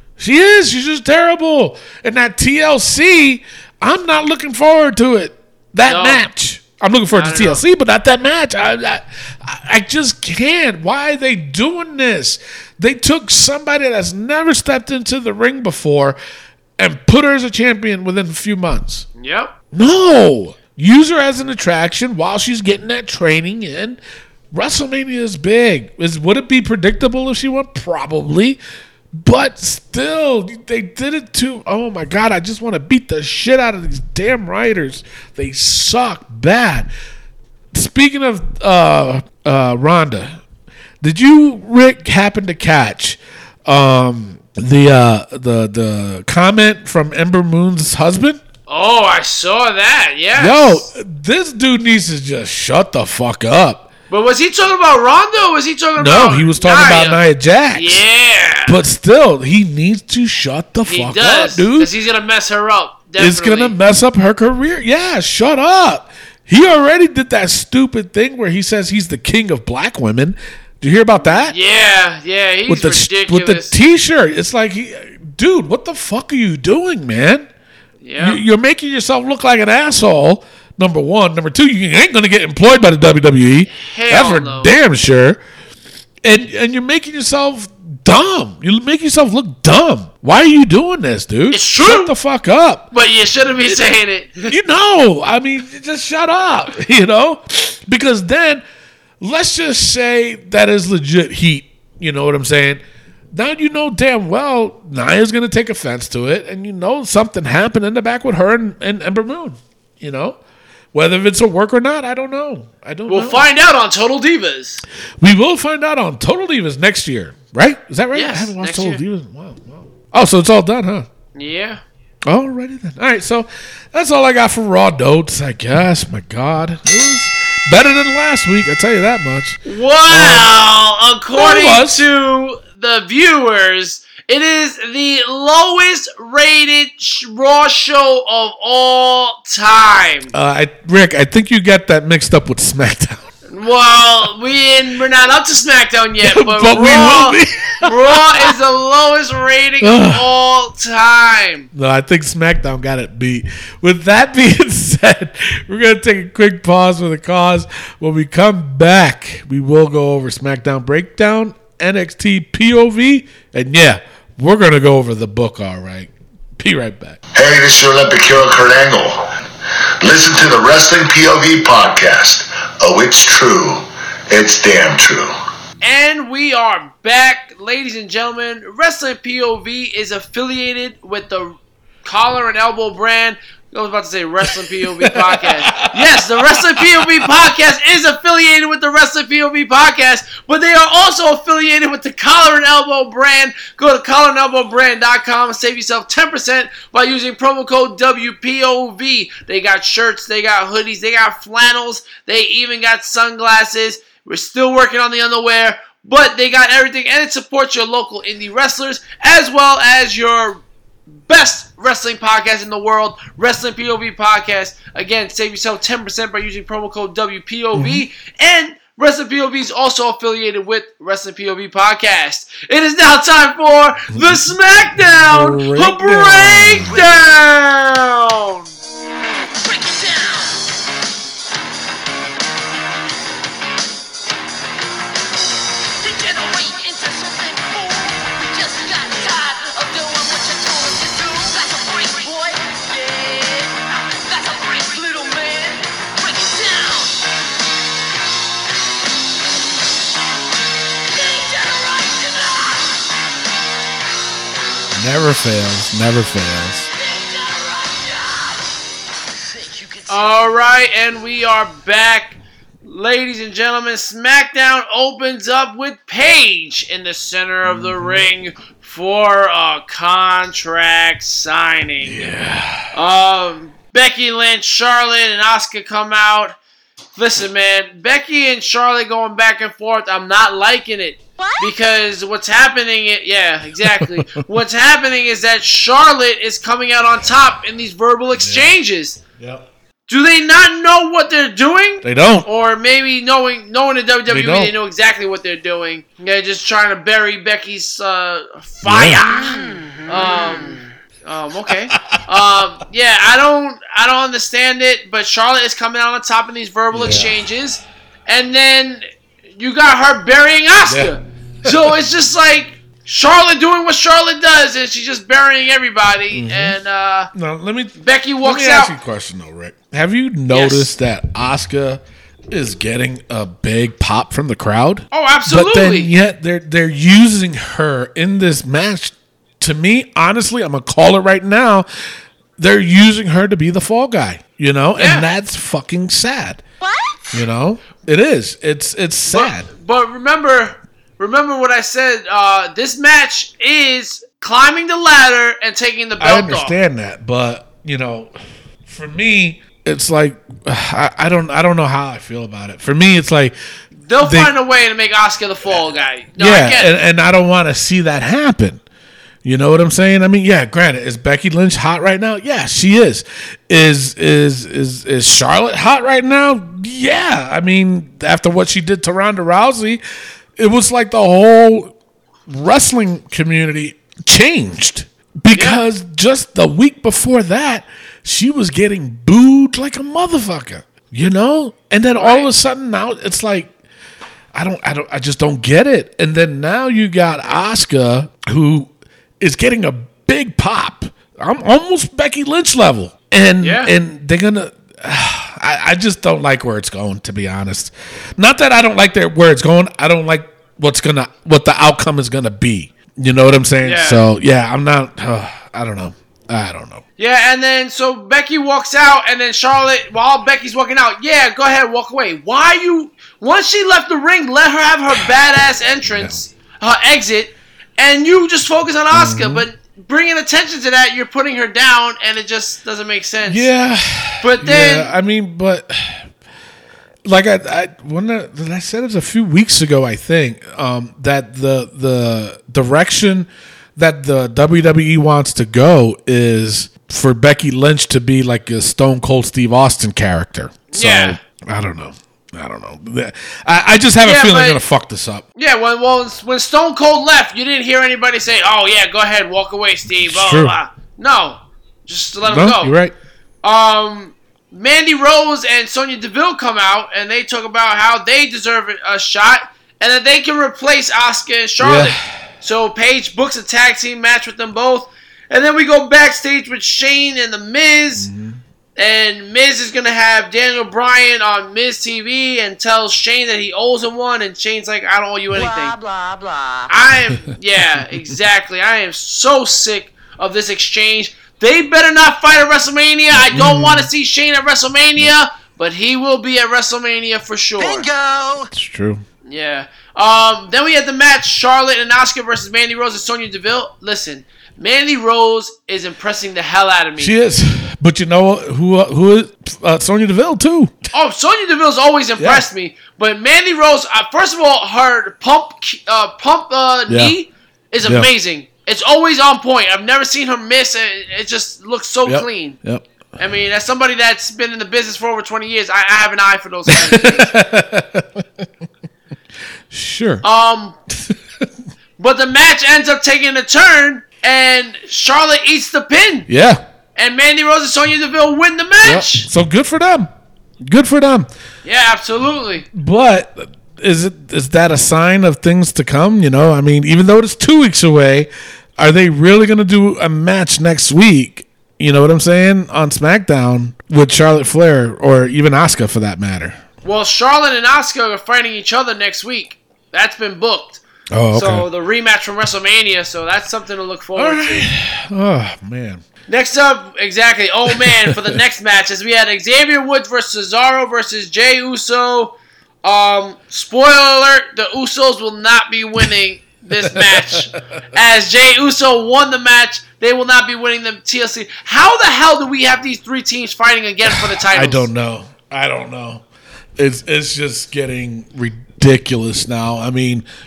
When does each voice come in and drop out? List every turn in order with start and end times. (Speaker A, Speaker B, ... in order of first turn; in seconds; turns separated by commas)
Speaker A: 0.2-16.2, Speaker B: 5.9-6.2, Speaker B: 7.1-7.6, Speaker A: 16.8-19.1, Speaker B: 19.2-19.5, Speaker A: 19.7-24.0, Speaker A: 24.5-28.6, Speaker A: 29.1-36.9, Speaker A: 37.7-40.4, Speaker A: 41.0-48.4, Speaker B: 48.7-50.9, Speaker A: 50.4-53.9, Speaker B: 54.1-57.2, Speaker A: 56.0-58.0, Speaker B: 57.7-58.8, Speaker A: 58.7-61.9, Speaker B: 60.9-63.8, Speaker A: 63.2-71.5, Speaker B: 71.5-73.7, Speaker A: 72.7-77.5, Speaker B: 78.0-78.4, Speaker A: 78.2-85.4, Speaker B: 83.7-84.7, Speaker A: 86.2-92.9, Speaker B: 91.5-92.1, Speaker B: 92.9-94.5, Speaker A: 94.5-98.6, Speaker A: 99.2-110.4, Speaker A: 110.9-113.4, Speaker B: 113.1-114.8, Speaker A: 115.2-121.1, Speaker B: 118.1-119.0, Speaker B: 121.3-121.8, Speaker A: 122.3-130.5, Speaker B: 129.7-140.3, Speaker A: 131.3-132.0, Speaker A: 140.3-143.2, Speaker B: 143.5-151.7, Speaker A: 146.2-148.5, Speaker A: 149.8-150.3, Speaker A: 151.7-167.2, Speaker C: 167.3-169.3, Speaker C: 170.0-175.3, Speaker B: 175.8-210.6, Speaker A: 185.0-187.3, Speaker B: 211.3-228.7, Speaker A: 217.8-218.1, Speaker A: 224.1-224.4, Speaker A: 225.3-227.0, Speaker D: 229.6-230.6, Speaker D: 236.0-247.2, Speaker D: 251.1-253.0, Speaker A: 254.9-256.9, Speaker D: 256.9-258.6, Speaker D: 259.4-260.7, Speaker B: 260.1-272.2, Speaker A: 267.6-268.3, Speaker A: 272.0-273.0, Speaker B: 272.9-276.6, Speaker B: 277.2-289.2, Speaker A: 283.8-284.4, Speaker A: 288.4-288.7, Speaker A: 289.4-289.7, Speaker B: 290.1-309.1, Speaker A: 292.0-292.5, Speaker A: 294.3-294.7, Speaker A: 298.8-300.4, Speaker D: 299.8-300.0, Speaker A: 301.7-302.2, Speaker A: 306.9-307.4, Speaker B: 309.6-317.3, Speaker A: 310.9-311.1, Speaker A: 311.7-311.9, Speaker A: 316.3-316.8, Speaker A: 317.3-331.9, Speaker B: 318.0-318.9, Speaker B: 320.5-320.9, Speaker B: 325.1-326.1, Speaker A: 332.6-336.6, Speaker B: 335.0-335.3, Speaker A: 337.3-339.7, Speaker B: 339.3-346.8, Speaker A: 346.2-348.3, Speaker A: 348.9-353.6, Speaker B: 354.0-356.9, Speaker A: 354.2-354.6, Speaker A: 356.4-358.8, Speaker A: 359.4-370.0, Speaker A: 370.6-371.9, Speaker A: 372.5-383.7, Speaker B: 375.5-375.8, Speaker B: 382.2-382.5, Speaker A: 384.5-407.0, Speaker B: 393.6-393.9, Speaker B: 403.8-404.3, Speaker B: 407.2-423.7, Speaker A: 416.0-416.3, Speaker A: 419.1-419.7, Speaker A: 423.4-426.3, Speaker B: 424.4-425.1, Speaker A: 427.2-445.4, Speaker B: 440.9-441.4, Speaker B: 444.2-444.8, Speaker B: 445.6-452.9, Speaker A: 450.1-450.8, Speaker A: 452.5-453.1, Speaker B: 453.6-468.3, Speaker A: 461.8-462.2, Speaker A: 468.2-468.6, Speaker B: 469.0-476.0, Speaker D: 475.5-476.9, Speaker B: 476.9-488.1, Speaker A: 483.3-484.1, Speaker D: 487.8-488.7, Speaker A: 488.7-489.2, Speaker B: 489.5-497.3, Speaker A: 497.2-501.1, Speaker B: 501.1-512.8, Speaker A: 502.4-502.6, Speaker A: 507.1-507.4, Speaker A: 508.0-508.3, Speaker A: 512.3-513.1, Speaker B: 513.4-517.5, Speaker A: 516.9-518.5, Speaker A: 519.9-520.4, Speaker B: 520.4-521.0, Speaker B: 522.2-526.5, Speaker A: 526.5-526.8, Speaker B: 527.2-529.5, Speaker A: 529.0-530.3, Speaker A: 530.8-531.5, Speaker B: 531.9-532.9, Speaker A: 532.9-546.8, Speaker B: 547.0-551.0, Speaker A: 551.3-551.9, Speaker B: 551.5-554.9, Speaker A: 554.4-556.2, Speaker B: 556.5-575.1, Speaker A: 558.0-558.5, Speaker A: 567.1-567.5, Speaker A: 574.3-576.4, Speaker A: 577.0-580.5